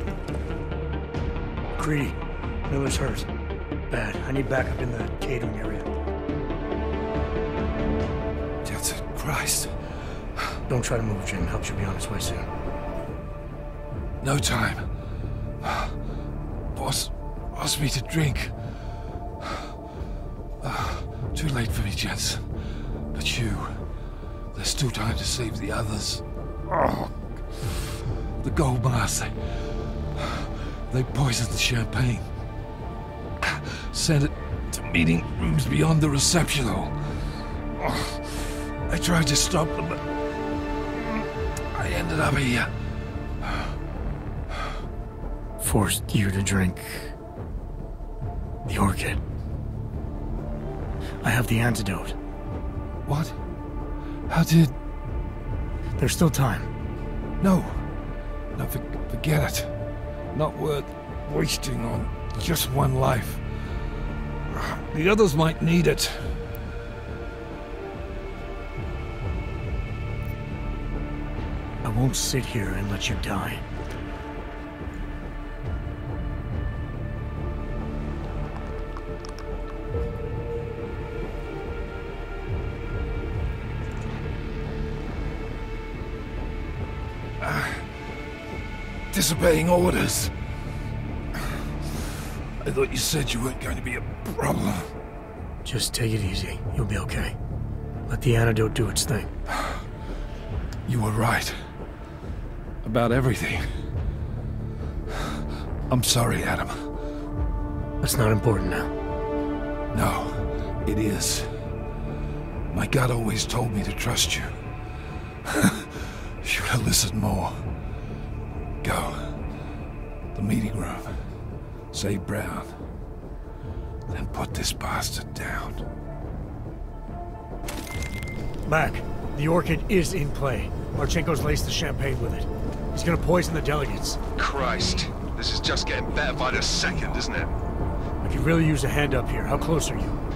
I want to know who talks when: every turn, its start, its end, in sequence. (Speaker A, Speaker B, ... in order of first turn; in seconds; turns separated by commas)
Speaker A: 1.7-3.3, Speaker A: 3.9-5.9, Speaker B: 8.6-9.7, Speaker A: 10.7-12.5, Speaker B: 14.2-14.9, Speaker B: 15.6-15.9, Speaker B: 16.7-18.5, Speaker B: 20.6-22.5, Speaker B: 23.1-23.8, Speaker B: 24.5-27.8, Speaker B: 28.4-29.4, Speaker B: 30.1-32.3, Speaker B: 33.4-37.0, Speaker B: 37.8-40.0, Speaker B: 41.7-42.7, Speaker A: 45.6-47.1, Speaker A: 48.7-49.2, Speaker A: 51.2-52.2, Speaker B: 53.0-53.4, Speaker B: 54.3-54.7, Speaker A: 56.0-56.7, Speaker B: 57.4-57.9, Speaker B: 58.5-59.7, Speaker B: 60.3-63.4, Speaker B: 64.5-66.4, Speaker A: 71.8-73.6, Speaker B: 87.4-87.9, Speaker B: 89.1-90.3, Speaker B: 92.6-94.9, Speaker A: 95.6-97.3, Speaker A: 98.1-99.3, Speaker B: 100.8-101.6, Speaker B: 102.8-103.7, Speaker B: 105.9-106.8, Speaker A: 108.0-108.9, Speaker B: 109.9-111.5, Speaker B: 112.7-114.5, Speaker B: 115.4-117.6, Speaker B: 118.8-119.4, Speaker B: 120.3-121.2, Speaker B: 121.9-122.8, Speaker B: 124.1-125.8, Speaker A: 128.6-134.2, Speaker C: 134.4-137.5, Speaker A: 138.2-140.2